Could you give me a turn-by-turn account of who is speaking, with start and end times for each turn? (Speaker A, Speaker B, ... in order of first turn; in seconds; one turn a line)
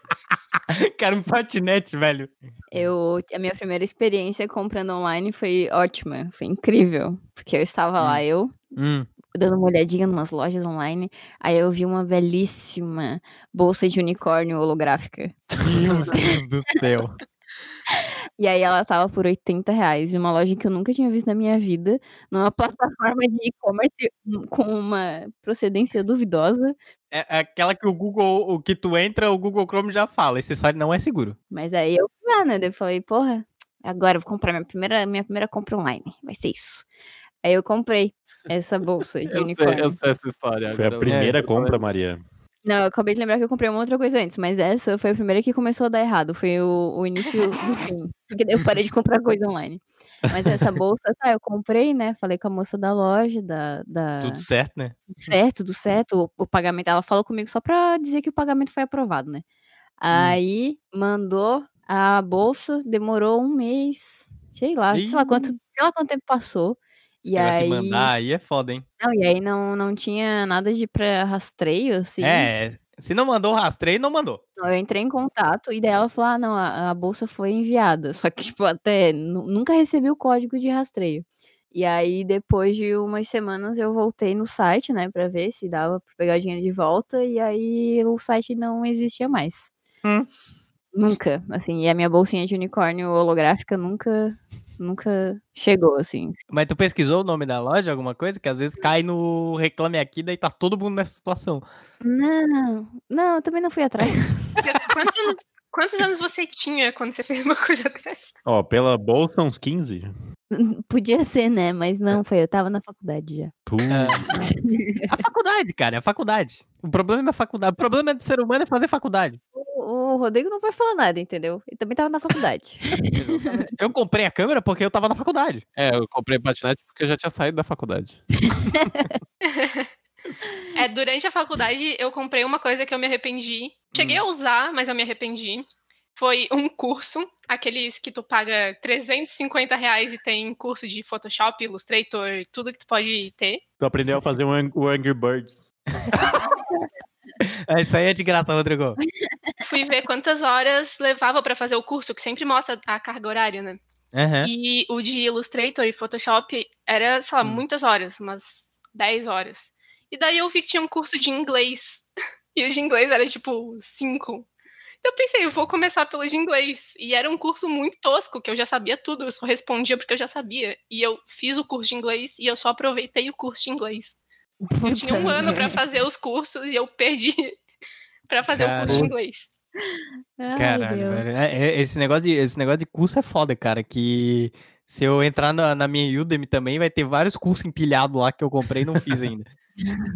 Speaker A: 0.7-2.9
Speaker B: 2.7-8.6
Speaker A: 8.8-9.1
Speaker B: 9.3-15.4
Speaker A: 15.6-17.2
Speaker B: 17.9-26.8
Speaker A: 27.1-31.4
Speaker B: 31.5-36.9
Speaker B: 37.4-40.0
Speaker C: 39.3-41.8
Speaker D: 40.7-42.2
Speaker A: 41.1-41.4
Speaker B: 42.6-54.4
Speaker A: 54.2-55.3
Speaker B: 55.1-59.4
Speaker B: 60.0-68.1
Speaker A: 60.1-60.4
Speaker A: 64.9-65.5
Speaker A: 67.3-68.8
Speaker B: 69.0-72.5
Speaker A: 72.2-74.4
Speaker B: 74.6-89.7
Speaker B: 90.9-96.4
Speaker A: 96.5-101.6
Speaker B: 102.0-104.6
Speaker E: 104.6-108.4
Speaker D: 108.4-110.1
Speaker B: 110.5-113.5
Speaker D: 113.7-114.4
Speaker A: 113.9-114.2
Speaker B: 114.4-115.2
Speaker A: 115.1-119.4
Speaker B: 119.5-123.7
Speaker A: 123.1-125.6
Speaker C: 125.8-128.2
Speaker B: 128.8-129.2
Speaker E: 129.4-129.9
Speaker E: 130.8-143.6
Speaker A: 133.9-134.2
Speaker D: 143.8-145.7
Speaker A: 146.1-146.8
Speaker A: 147.4-149.0
Speaker E: 149.6-153.8
Speaker A: 154.1-154.5
Speaker E: 154.4-164.5
Speaker E: 165.0-174.2
Speaker B: 174.6-175.8
Speaker E: 174.8-177.6
Speaker E: 178.3-179.5
Speaker A: 178.5-179.1
Speaker B: 178.9-179.1
Speaker B: 180.4-181.2
Speaker A: 180.5-189.5